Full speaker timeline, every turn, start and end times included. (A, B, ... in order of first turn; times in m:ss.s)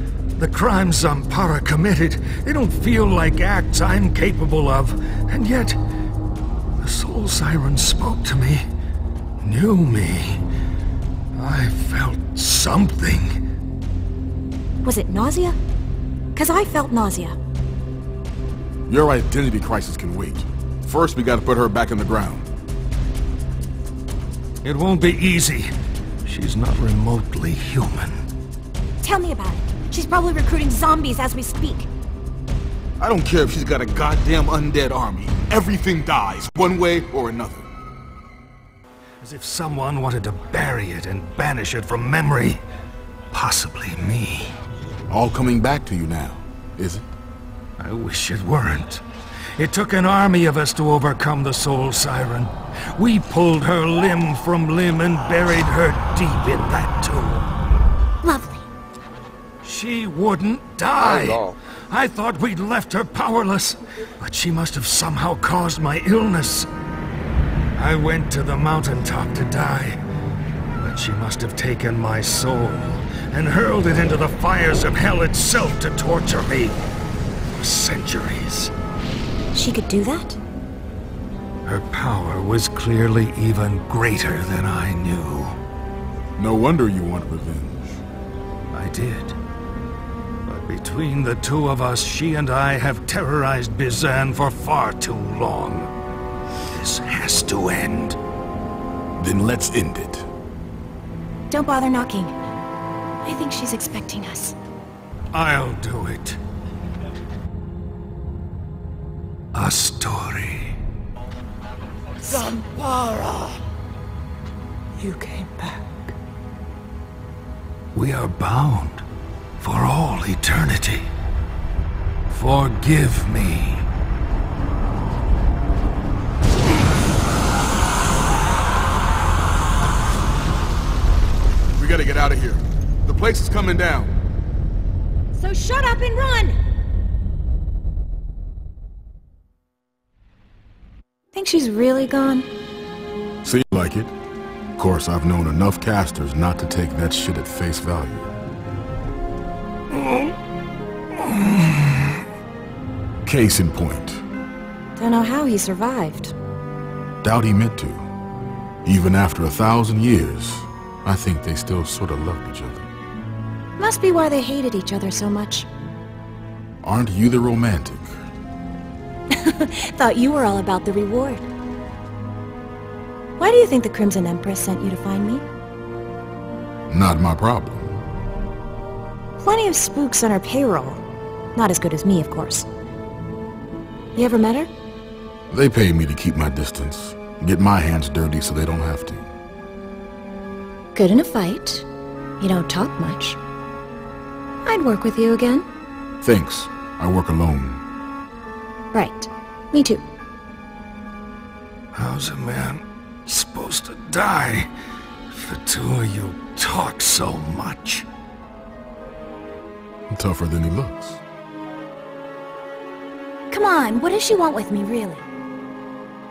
0:00.4-0:05.8 A
0:06.8-0:08.7 A
0:09.4-0:10.4 A
0:11.4-0:13.4 A
0:14.8-0:15.6 B
0:16.4-0:17.4 B
0:18.9-0:22.5 C
0:24.6-0:25.7 A
0:26.2-0:28.3 A
0:29.0-0:31.9 B
0:33.0-0:37.7 C
0:39.2-0:42.6 A
0:43.3-0:44.6 A
0:45.1-0:47.1 C
0:47.8-0:49.0 A
0:49.6-0:57.5 A
0:58.2-0:58.6 B
0:59.6-1:06.7 A
1:07.8-1:10.0 A
1:10.8-1:16.8 A
1:17.6-1:18.7 A
1:19.5-1:20.4 B
1:21.7-1:25.6 A
1:26.4-1:28.0 C
1:28.7-1:29.4 A
1:30.5-1:35.9 A
1:36.7-1:38.2 A
1:39.2-1:40.3 C
1:41.5-1:42.4 B
1:43.2-1:44.6 B
1:45.3-1:46.4 A
1:49.5-1:50.8 A
1:52.3-1:53.4 B
1:52.5-1:53.5 A
1:55.0-1:55.8 A
1:55.1-1:55.6 B
1:57.9-1:59.0 A
1:59.6-2:01.1 A
2:02.3-2:03.9 A
2:11.8-2:14.2 C
2:15.4-2:16.6 B
2:21.3-2:22.5 B
2:23.4-2:24.1 C
2:24.8-2:28.3 C
2:30.0-2:30.3 A
2:31.2-2:32.1 A
2:33.2-2:34.2 C
2:35.0-2:36.3 B
2:37.2-2:38.1 C
2:38.8-2:42.9 C
2:43.8-2:45.7 B
2:46.8-2:48.2 C
2:49.3-2:51.5 B
2:53.4-2:55.4 B
2:56.9-2:58.0 C
2:59.4-3:02.7 B
3:04.2-3:04.7 B
3:05.5-3:09.3 C
3:11.0-3:11.9 B
3:12.4-3:13.4 B
3:14.6-3:15.6 B
3:16.2-3:17.8 C
3:18.9-3:20.0 B
3:21.9-3:24.7 A
3:25.3-3:28.1 A
3:30.1-3:31.2 C
3:33.5-3:35.3 B